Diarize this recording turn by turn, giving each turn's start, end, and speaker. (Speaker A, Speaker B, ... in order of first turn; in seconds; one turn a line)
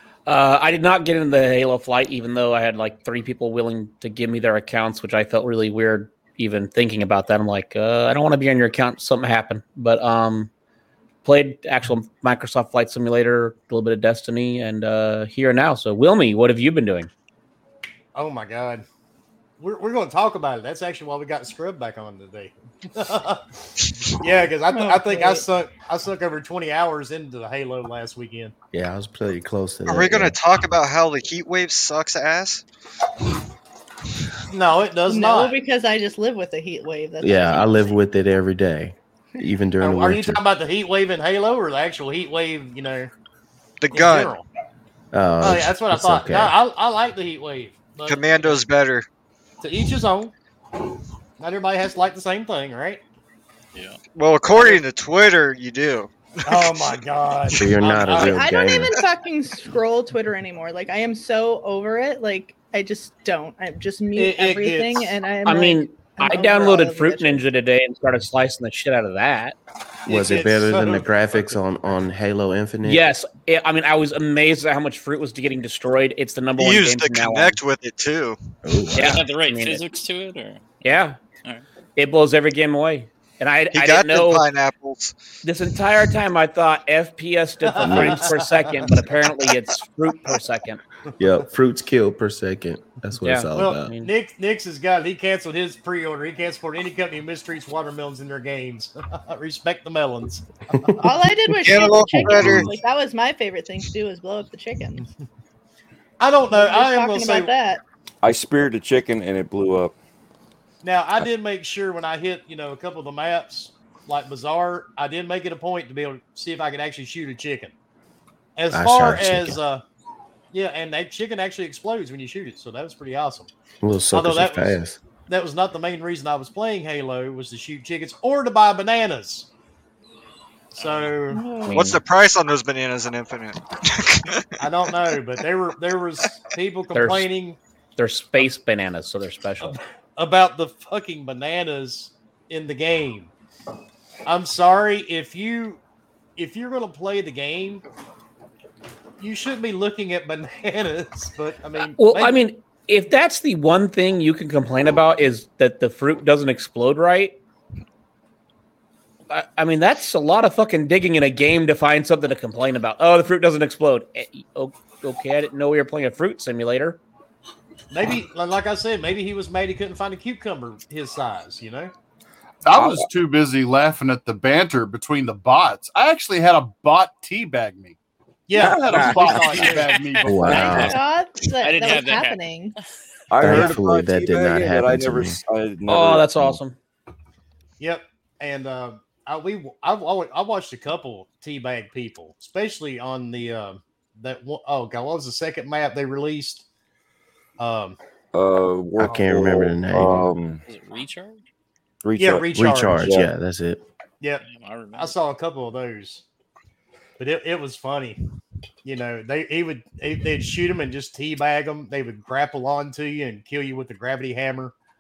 Speaker A: 0.3-10.5
Speaker A: 11.2-17.1
Speaker B: 18.1-18.9
Speaker B: 19.6-23.4
Speaker B: 24.1-28.5
Speaker C: 24.7-25.4
Speaker D: 28.7-30.4
Speaker E: 29.9-32.6
Speaker B: 34.5-35.6
Speaker C: 35.1-37.9
Speaker D: 37.2-40.4
Speaker B: 39.8-43.1
Speaker E: 43.8-44.4
Speaker B: 43.9-44.5
Speaker D: 45.1-46.6
Speaker B: 45.4-48.6
Speaker E: 48.1-49.1
Speaker B: 49.6-50.3
Speaker B: 51.4-53.0
Speaker E: 54.1-56.9
Speaker B: 54.5-54.8
Speaker B: 56.5-58.4
Speaker D: 57.5-59.0
Speaker C: 58.1-67.4
Speaker B: 64.2-65.1
Speaker A: 65.5-69.6
Speaker D: 70.1-73.1
Speaker B: 70.1-71.6
Speaker A: 72.8-77.6
Speaker E: 76.6-78.4
Speaker D: 78.6-79.2
Speaker A: 78.9-79.8
Speaker F: 79.0-80.6
Speaker A: 80.8-81.2
Speaker A: 82.0-84.5
Speaker E: 83.7-85.2
Speaker A: 85.4-90.8
Speaker B: 87.7-88.9
Speaker D: 87.8-88.3
Speaker D: 91.2-93.9
Speaker A: 93.2-94.1
Speaker B: 93.5-101.0
Speaker C: 101.0-105.0
Speaker E: 101.6-102.7
Speaker B: 106.2-107.5
Speaker C: 106.5-107.8
Speaker G: 108.2-110.0
Speaker B: 110.8-117.7
Speaker B: 118.6-119.8
Speaker D: 118.7-119.6
Speaker B: 120.5-123.5
Speaker D: 123.8-125.0
Speaker B: 124.1-129.5
Speaker B: 130.7-131.4
Speaker A: 131.3-132.0
Speaker E: 131.7-134.4
Speaker B: 134.6-137.6
Speaker A: 136.9-137.3
Speaker A: 138.0-139.8
Speaker B: 139.6-143.3
Speaker B: 144.2-145.8
Speaker B: 146.4-147.8
Speaker B: 149.2-152.4
Speaker A: 151.9-157.4
Speaker A: 159.3-167.0
Speaker B: 167.9-171.9
Speaker H: 172.7-178.0
Speaker G: 172.7-173.1
Speaker B: 178.5-180.0
Speaker G: 178.6-179.6
Speaker H: 178.6-180.9
Speaker F: 179.6-181.1
Speaker D: 180.2-181.0
Speaker C: 180.5-182.7
Speaker F: 181.6-182.4
Speaker G: 183.3-186.6
Speaker D: 183.4-185.4
Speaker A: 185.9-186.8
Speaker B: 187.8-196.7
Speaker B: 197.6-198.0
Speaker G: 198.3-200.6
Speaker D: 199.0-200.3
Speaker F: 200.7-201.4
Speaker G: 202.0-203.3
Speaker B: 202.2-203.1
Speaker D: 202.5-203.8
Speaker B: 204.2-206.2
Speaker F: 204.4-205.2
Speaker B: 207.2-208.2
Speaker B: 208.8-214.7